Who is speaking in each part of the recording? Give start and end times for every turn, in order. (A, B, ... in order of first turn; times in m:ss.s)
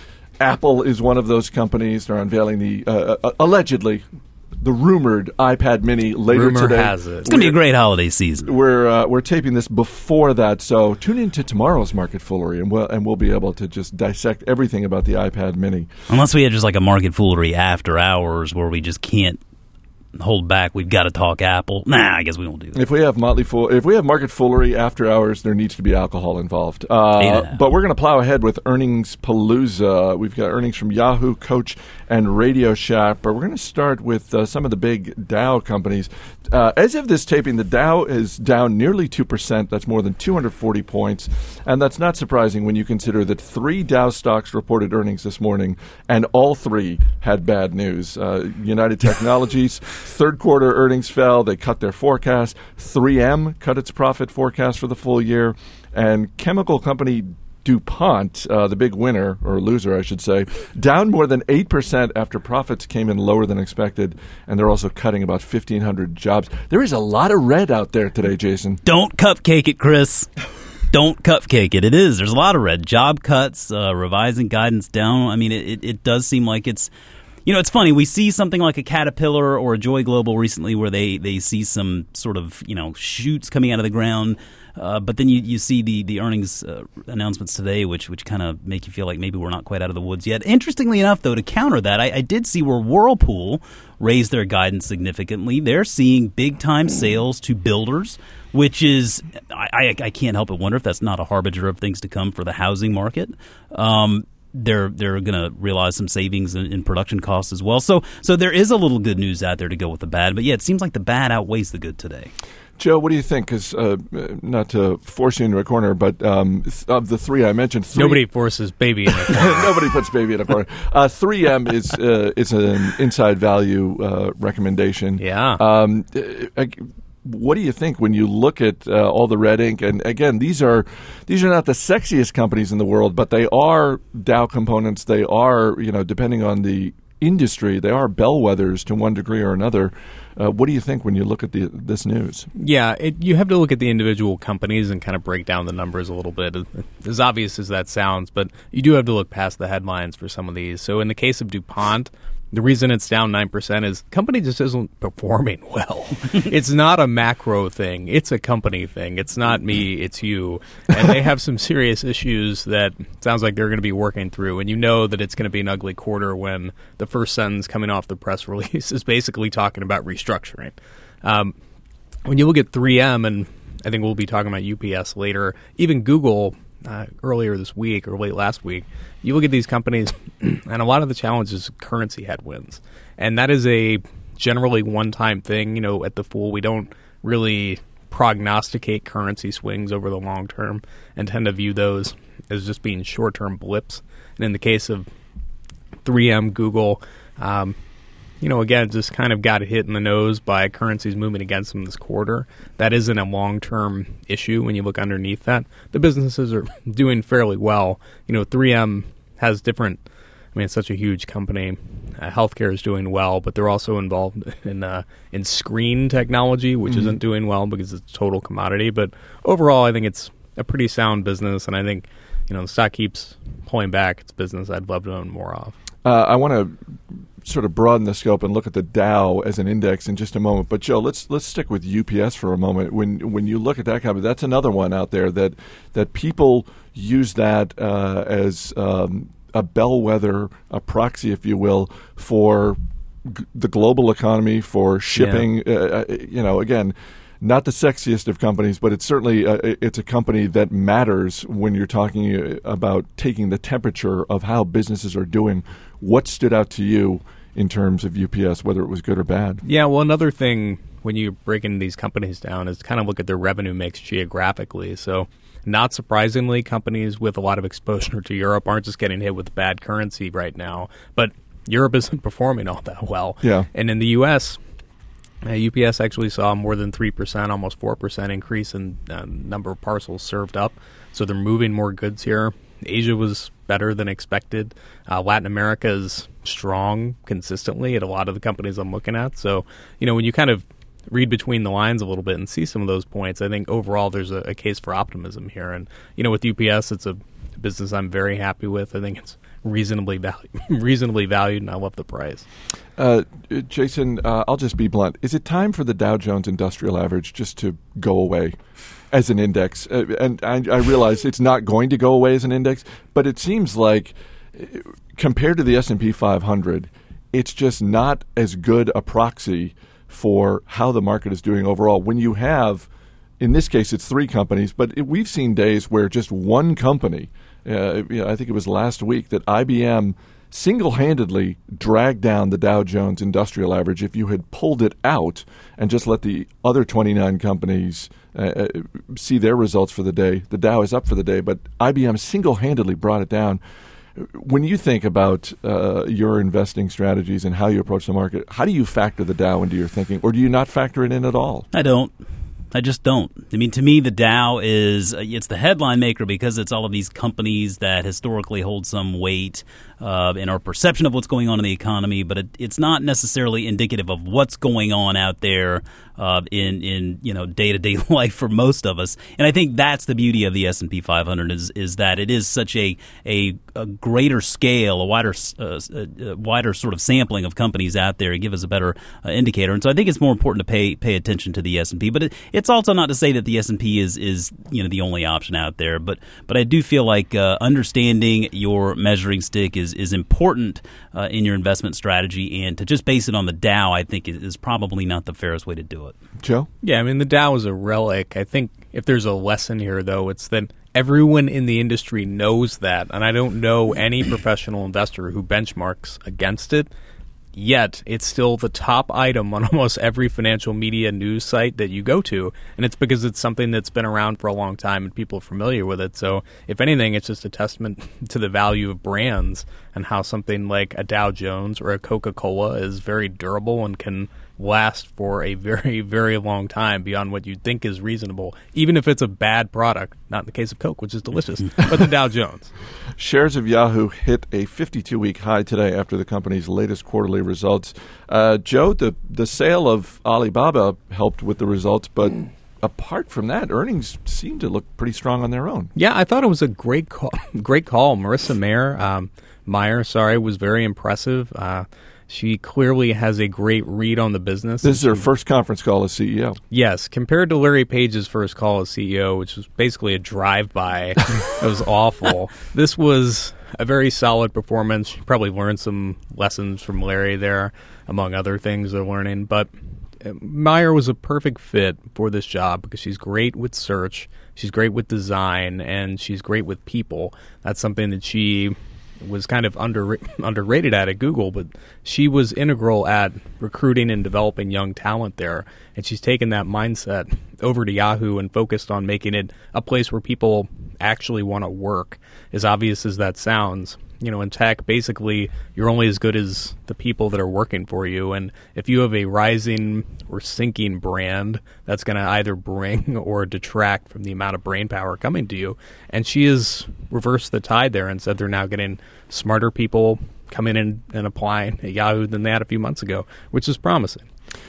0:00.4-0:04.0 A
0:04.6-0:07.6 A
0:06.3-0:07.3 B
0:07.2-0:08.5 C
0:08.4-0:15.9 A
0:16.1-0:19.4 C
0:20.2-0:22.8 C
0:22.7-1:08.8 A
0:27.2-0:27.6 C
1:08.8-1:10.3 C
1:10.9-1:16.9 C
1:17.5-1:52.3 C
1:52.8-1:58.2 A
1:57.9-1:59.9 B
1:59.2-2:22.5 A
2:05.2-2:05.6 B
2:22.6-2:51.6 B
2:52.3-3:15.1 B
3:16.0-3:17.8 B
3:18.4-3:30.0 B
3:30.5-3:45.8 B
3:36.9-3:37.2 A
3:46.0-3:46.8 A
3:47.4-4:19.6 A
4:05.2-4:05.5 B
4:19.6-4:34.6 B
4:33.4-4:33.7 A
4:35.4-5:02.5 B
5:03.0-5:08.6 A
5:09.1-5:22.9 A
5:23.4-5:43.6 A
5:44.2-5:51.7 A
5:51.7-5:52.1 C
5:52.7-6:36.2 C
6:36.4-6:36.7 A
6:36.8-6:46.9 B
6:47.6-7:12.7 B
7:13.2-7:25.9 A
7:26.0-7:35.3 B
7:34.8-7:36.6 A
7:36.7-7:49.7 B
7:50.2-8:34.3 B